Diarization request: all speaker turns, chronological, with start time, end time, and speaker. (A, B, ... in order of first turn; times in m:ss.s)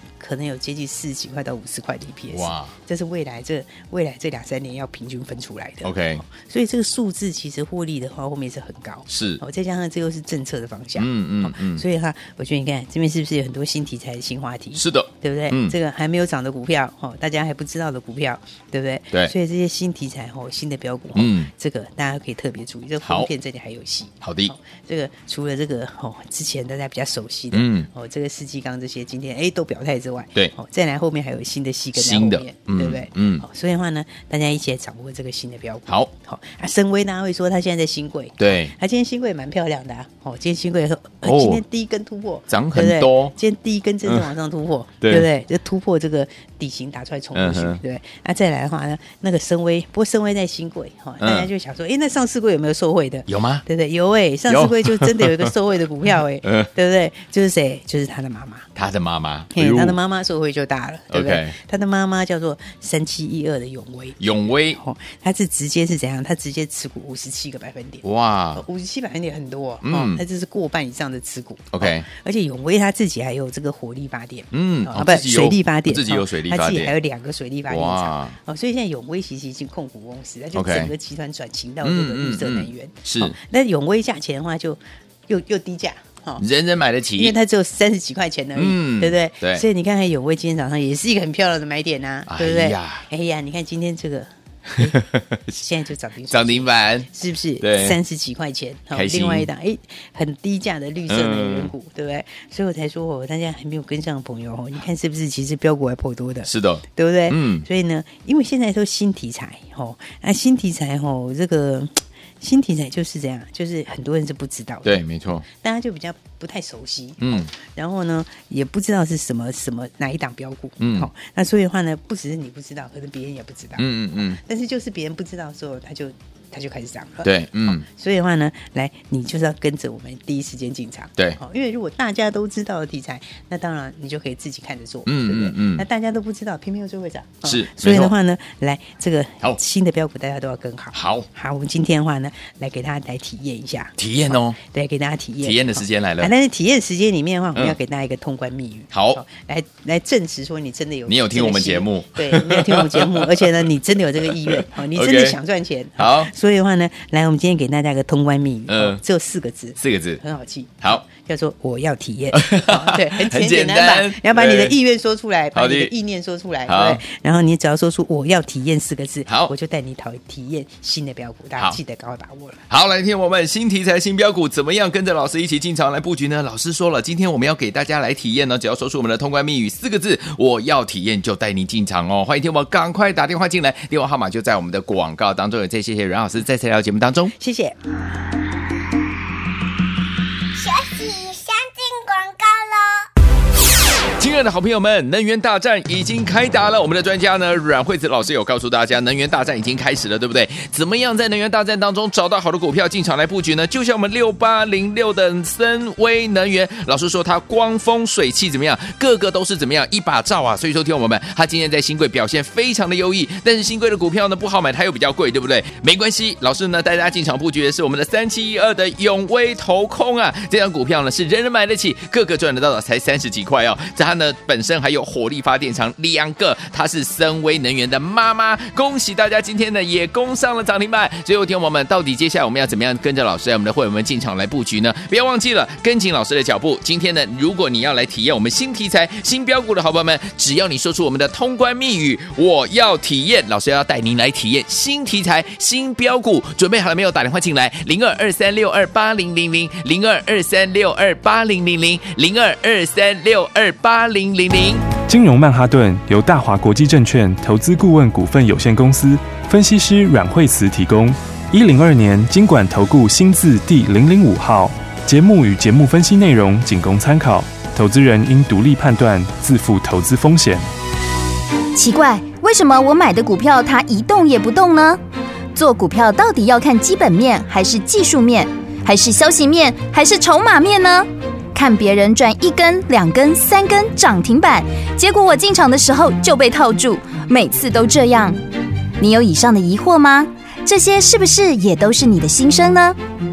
0:00.2-0:58.7 A
0:02.3-0:02.7 B
0:05.8-0:06.2 B
0:09.1-0:09.4 B
0:11.0-0:11.8 B
0:14.8-0:15.7 B
0:21.1-0:21.5 B
0:23.0-0:23.3 B
0:24.2-0:24.5 B
0:27.5-0:27.9 B
0:31.9-0:33.4 B
0:38.4-0:38.7 B
0:41.2-0:41.6 B
0:42.5-0:43.3 B
0:45.0-0:45.3 B
0:47.3-0:47.8 B
0:51.2-0:51.5 B
0:53.3-0:53.6 B
0:54.5-0:55.5 B
0:56.4-0:56.7 B
0:58.7-1:00.0 B
0:59.5-1:26.4 A
1:01.1-1:01.6 B
1:04.2-1:04.8 B
1:08.0-1:08.6 B
1:09.8-1:10.2 B
1:11.7-1:12.1 B
1:14.5-1:16.9 B
1:17.7-1:18.4 B
1:20.5-1:20.9 B
1:21.8-1:23.4 B
1:26.4-1:27.3 B
1:27.2-2:24.0 A
1:28.6-1:29.6 B
1:32.3-1:33.0 B
1:34.8-1:35.6 B
1:36.3-1:37.1 B
1:37.6-1:38.0 B
1:38.9-1:39.5 B
1:41.1-1:41.7 B
1:46.4-1:47.7 B
1:54.8-1:55.4 B
1:57.2-1:57.5 B
2:00.8-2:01.1 B
2:03.8-2:04.4 B
2:07.2-2:07.8 B
2:15.0-2:15.8 B
2:17.4-2:18.1 B
2:20.9-2:21.3 B
2:24.0-2:24.6 B
2:24.6-2:52.6 A
2:25.4-2:26.3 B
2:28.9-2:29.2 B
2:31.0-2:35.4 B
2:36.0-2:36.3 B
2:38.7-2:39.0 B
2:39.8-2:40.2 B
2:42.3-2:44.8 B
2:45.5-2:45.9 B
2:46.6-2:47.0 B
2:49.3-2:49.5 B
2:52.7-3:07.3 B
3:07.4-3:08.0 A
3:10.5-3:13.0 C
3:14.2-4:14.9 B
4:15.1-4:30.6 D
4:31.8-4:35.0 E
4:35.5-4:48.4 E
4:49.0-4:53.0 E